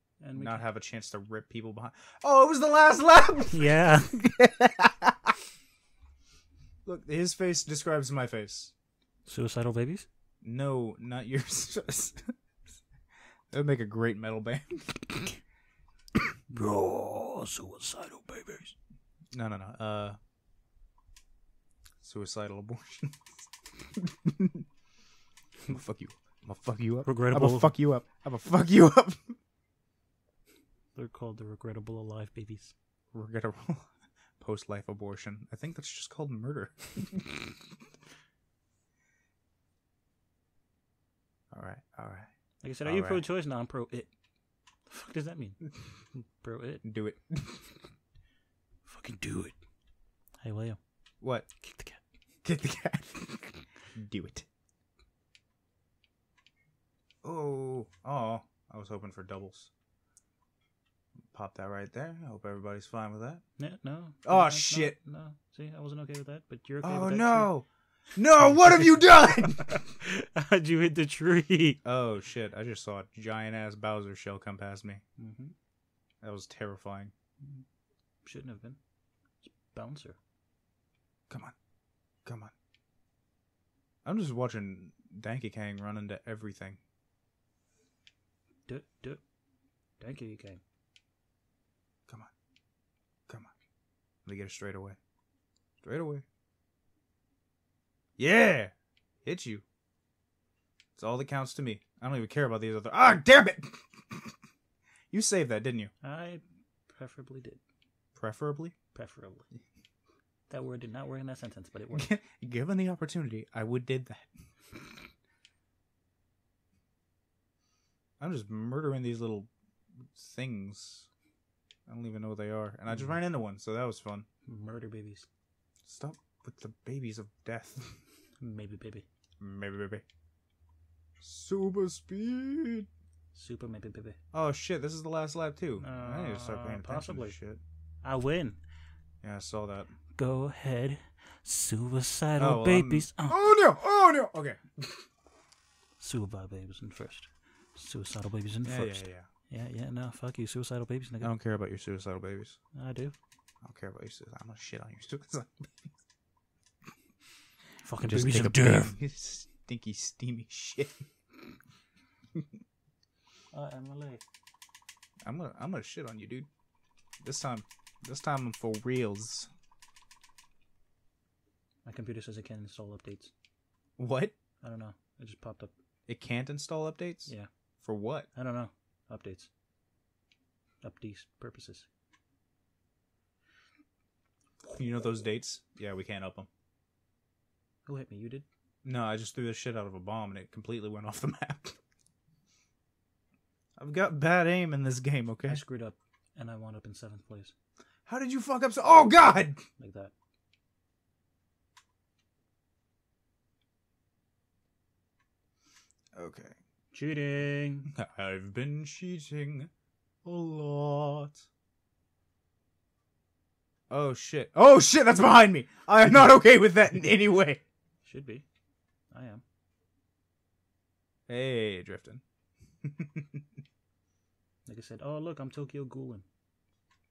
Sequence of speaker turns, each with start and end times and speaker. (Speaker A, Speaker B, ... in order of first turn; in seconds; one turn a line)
Speaker A: 0.2-0.7
Speaker B: 0.3-5.3
Speaker A: 3.5-4.2
Speaker B: 6.8-8.7
Speaker A: 9.3-10.1
Speaker B: 10.4-12.3
Speaker B: 13.5-15.3
Speaker A: 16.5-18.8
Speaker B: 19.3-20.2
Speaker B: 22.0-23.3
Speaker B: 24.0-24.6
Speaker B: 25.7-29.4
Speaker A: 27.1-27.8
Speaker A: 30.9-32.7
Speaker B: 33.1-37.3
Speaker B: 41.5-42.3
Speaker A: 42.6-44.1
Speaker B: 42.8-43.2
Speaker A: 44.9-46.8
Speaker B: 46.8-47.7
Speaker A: 48.9-49.5
Speaker A: 50.4-50.8
Speaker B: 51.2-51.5
Speaker A: 51.6-52.0
Speaker B: 52.5-54.5
Speaker B: 57.2-59.7
Speaker B: 61.3-63.4
Speaker A: 63.6-67.5
Speaker B: 64.2-65.0
Speaker B: 66.8-69.8
Speaker A: 68.4-71.8
Speaker B: 71.8-75.0
Speaker A: 75.2-75.5
Speaker B: 76.2-77.1
Speaker A: 78.2-78.8
Speaker A: 79.4-80.2
Speaker B: 82.3-82.5
Speaker B: 84.0-86.8
Speaker A: 88.7-89.2
Speaker A: 90.0-90.6
Speaker B: 94.3-95.0
Speaker B: 95.8-96.2
Speaker B: 98.2-98.7
Speaker B: 99.2-99.6
Speaker B: 101.0-104.3
Speaker B: 105.1-105.9
Speaker A: 106.0-107.6
Speaker B: 108.2-108.8
Speaker A: 108.9-109.5
Speaker A: 110.5-112.1
Speaker B: 111.9-114.3
Speaker B: 118.2-119.5
Speaker B: 120.1-121.1
Speaker B: 121.9-124.3
Speaker A: 122.9-123.2
Speaker A: 124.5-125.3
Speaker B: 125.9-128.0
Speaker A: 128.4-129.1
Speaker B: 129.4-130.0
Speaker B: 131.2-132.9
Speaker A: 133.3-134.2
Speaker B: 134.3-137.6
Speaker A: 135.8-137.4
Speaker A: 138.0-138.6
Speaker B: 139.2-139.9
Speaker A: 140.2-143.5
Speaker B: 142.4-144.6
Speaker A: 146.0-151.3
Speaker B: 148.6-149.3
Speaker B: 151.2-152.6
Speaker A: 152.7-153.1
Speaker B: 153.6-155.7
Speaker A: 157.8-158.9
Speaker B: 158.0-161.0
Speaker A: 163.5-164.2
Speaker B: 165.2-166.5
Speaker B: 167.2-169.5
Speaker A: 171.8-173.3
Speaker B: 174.0-174.4
Speaker A: 174.6-175.7
Speaker B: 176.1-177.3
Speaker B: 177.8-178.3
Speaker A: 178.3-179.5
Speaker A: 180.8-181.9
Speaker B: 184.7-186.5
Speaker A: 187.9-188.4
Speaker B: 188.8-191.8
Speaker B: 193.8-195.6
Speaker A: 195.5-197.5
Speaker B: 198.1-199.6
Speaker A: 199.8-200.1
Speaker B: 206.2-206.6
Speaker A: 206.9-207.9
Speaker B: 207.9-209.7
Speaker B: 210.2-211.4
Speaker B: 213.9-217.6
Speaker A: 218.1-218.4
Speaker A: 219.1-219.4
Speaker B: 221.3-222.2
Speaker B: 222.8-223.4
Speaker A: 224.7-226.2